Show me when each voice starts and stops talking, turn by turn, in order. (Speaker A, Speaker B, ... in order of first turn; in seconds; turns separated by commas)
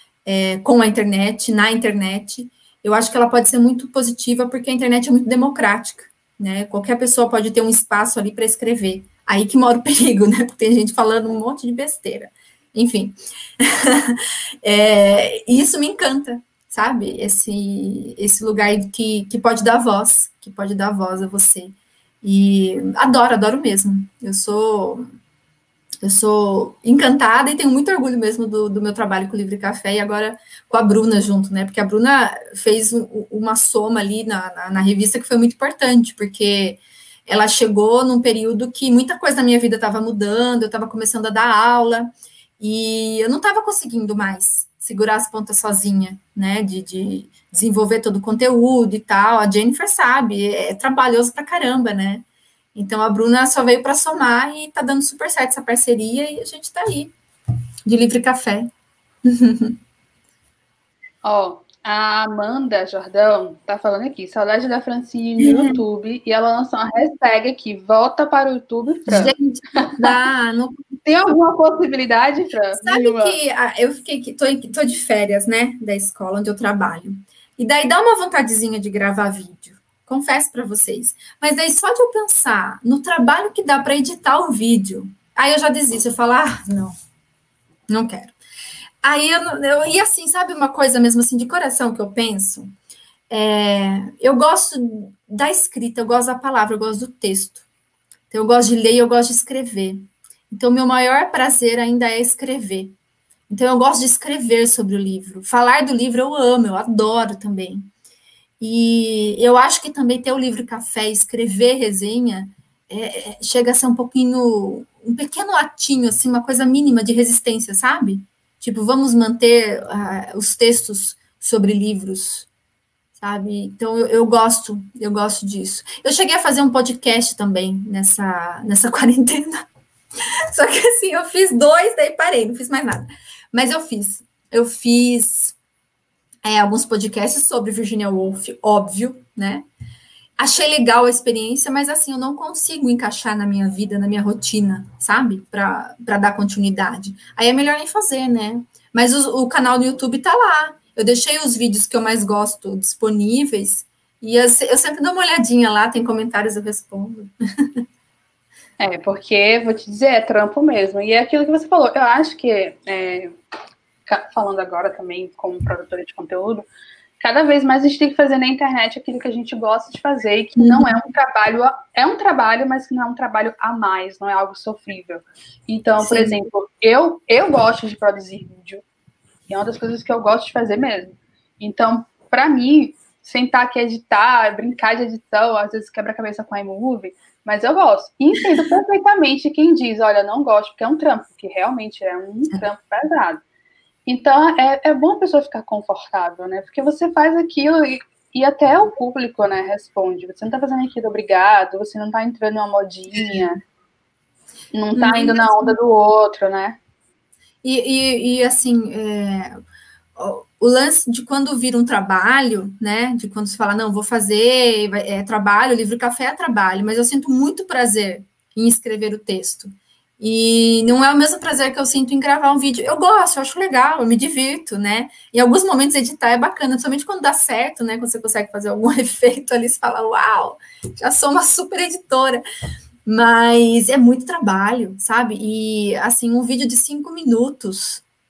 Speaker A: 0.2-25.0, Speaker A: 26.0-57.1, Speaker A: 57.9-58.7, Speaker A: 59.2-59.8, Speaker B: 61.2-70.2, Speaker A: 65.4-65.8, Speaker A: 69.1-70.9, Speaker B: 71.0-73.4, Speaker A: 72.7-87.0, Speaker A: 87.9-88.3, Speaker A: 89.0-92.7, Speaker A: 93.3-97.6, Speaker A: 98.3-102.9, Speaker A: 103.5-107.9, Speaker A: 108.6-122.5, Speaker A: 123.2-129.6, Speaker A: 130.5-135.6, Speaker A: 136.4-139.7, Speaker A: 140.4-157.8, Speaker B: 158.8-163.3, Speaker B: 164.1-166.7, Speaker B: 167.2-178.8, Speaker A: 170.6-170.9, Speaker A: 176.0-176.3, Speaker B: 179.5-193.4, Speaker B: 194.1-203.6, Speaker A: 203.2-203.4, Speaker B: 204.7-206.8, Speaker A: 204.9-205.8, Speaker A: 207.6-209.6, Speaker A: 210.2-232.4, Speaker A: 233.1-238.0